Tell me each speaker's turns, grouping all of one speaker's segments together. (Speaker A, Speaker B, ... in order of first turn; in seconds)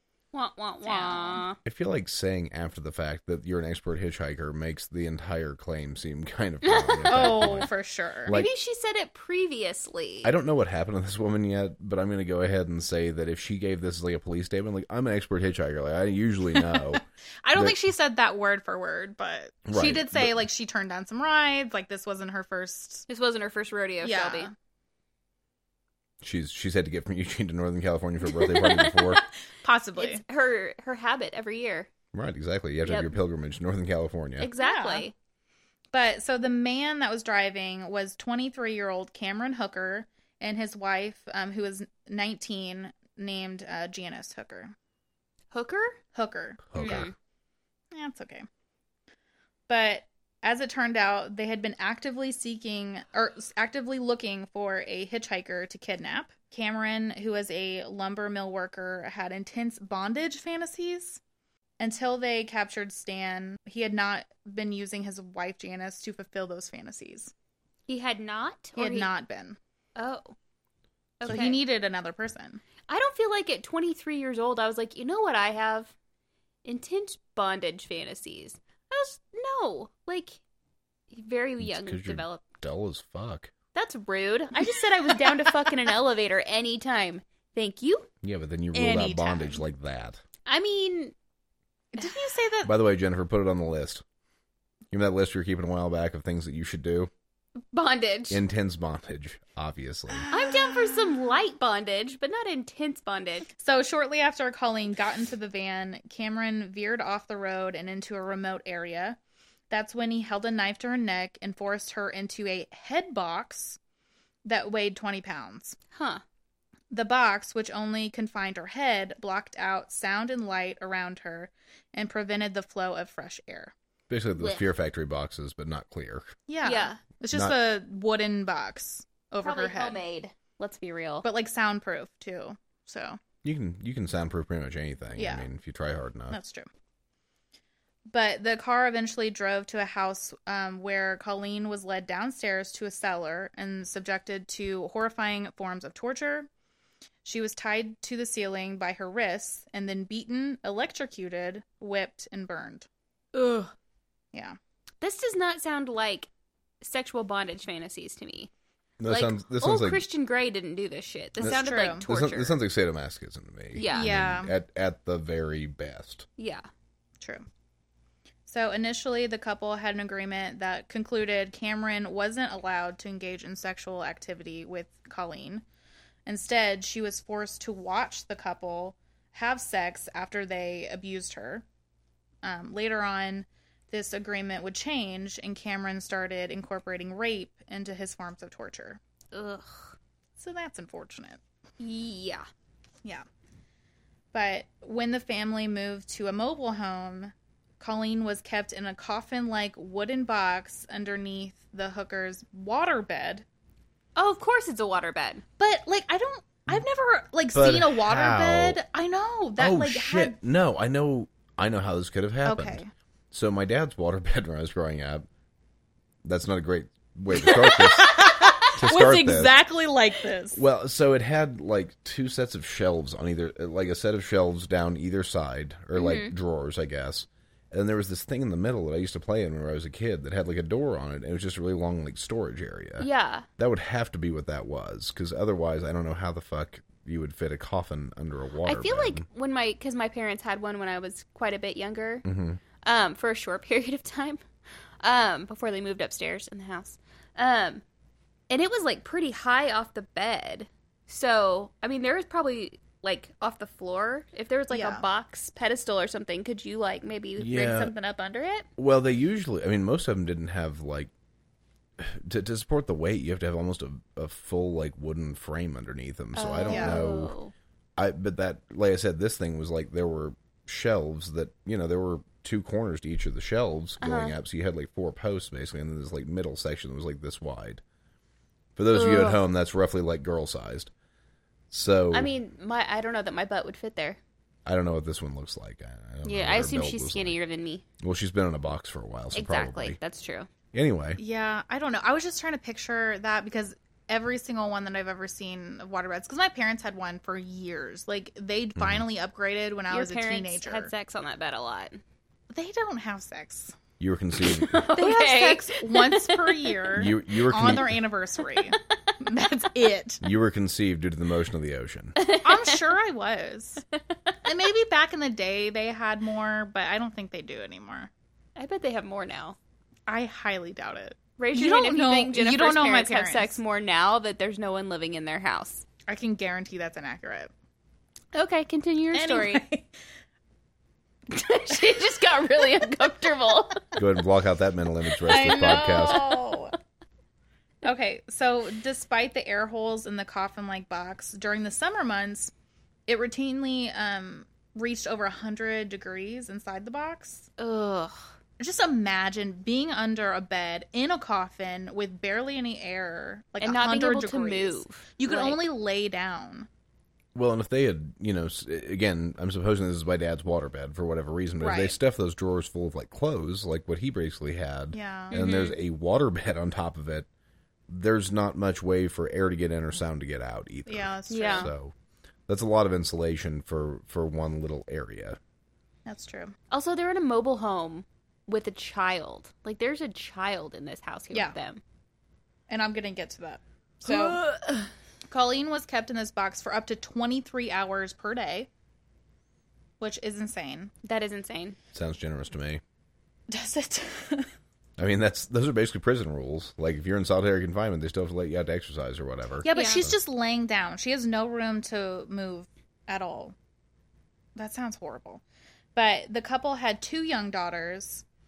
Speaker A: 0.3-1.6, 6.6-7.7, 8.3-10.3, 23.1-24.5, 28.3-29.2, 30.0-31.9, 32.9-33.2, 34.4-35.1, 45.5-46.0, 46.8-47.1, 67.9-69.1, 70.0-70.3, 71.2-71.6, 72.9-75.9, 76.7-80.4, 81.1-82.4, 83.7-88.1, 90.5-91.1, 92.0-92.4, 97.7-98.4, 100.3-103.5, 115.9-116.2, 124.4-124.7, 126.6-127.0, 129.4-131.3, 153.4-153.7, 155.0-156.3, 156.8-158.5, 159.1-162.6, 163.7-164.1, 166.4-166.7, 189.3-189.9, 191.8-192.5, 204.2-205.4, 225.9-226.3, 233.0-233.5, 238.7-242.3, 242.8-244.4, 245.0-247.8, 248.5-258.7, 266.4-267.5, 274.0-274.4, 278.9-279.4, 282.1-284.2, 286.2-287.9, 289.3-290.5, 299.9-302.0, 304.4-306.9, 312.2-312.8, 318.6-319.6, 321.4-325.9, 328.3-329.6, 331.3-333.8, 335.3-336.5, 347.6-348.3, 353.6-355.6, 365.3-365.8, 371.3-371.7, 376.7-381.8, 384.0-384.9, 391.0-391.8, 399.7-400.1
Speaker B: 0.8-1.5, 7.1-8.4, 16.6-23.1, 24.0-24.5, 29.6-30.2, 34.6-35.1, 35.9-44.7, 46.1-47.0, 47.9-48.5, 49.7-61.2, 61.8-67.3, 68.8-69.6, 71.2-72.6, 84.6-85.8, 88.7-89.6, 91.9-92.7, 100.1-101.4, 103.6-109.2, 109.7-113.8, 114.5-115.8, 116.9-123.7, 126.5-130.0, 131.2-133.2, 135.2-135.5, 136.3-136.7, 138.1-146.5, 147.2-152.9, 161.4-162.1, 163.9-164.5, 168.5-175.6, 176.3-181.6, 182.4-189.0, 190.4-191.4, 194.3-203.4, 205.6-210.4, 212.4-212.9, 217.4-220.6, 254.7-255.1, 266.7-267.0, 291.2-300.9, 302.5-303.8, 304.9-310.2, 312.4-313.8, 314.4-318.1, 320.1-323.6, 326.1-327.5, 329.1-329.9, 335.2-336.8, 337.8-342.5, 343.1-347.5, 348.6-356.7, 361.6-362.0, 364.9-365.4, 370.9-371.7, 376.1-376.5, 382.7-384.4, 385.3-388.7, 390.0-390.9, 393.5-394.5, 399.6-403.6, 404.6-405.4, 405.9-408.2
Speaker C: 1.6-7.7, 8.2-8.5, 10.2-17.0, 19.7-20.4, 26.2-29.2, 32.1-34.5, 46.7-47.1, 81.6-83.5, 88.2-90.2, 92.6-94.0, 94.9-97.1, 98.3-100.3, 124.1-126.4, 133.4-136.4, 159.0-160.0, 161.4-166.3, 207.5-208.8, 209.6-215.3, 216.2-219.6, 220.6-233.1, 233.6-239.2, 242.2-242.6, 257.4-257.9, 258.8-261.1, 262.0-267.4, 268.0-277.8, 278.8-280.9, 281.7-282.3, 284.7-287.4, 288.0-290.0, 290.7-291.2, 298.8-299.1, 304.0-304.8, 307.0-308.0, 310.2-312.2, 334.0-336.2, 357.4-367.3, 367.9-371.9, 372.5-375.4, 391.9-392.8, 395.0-400.2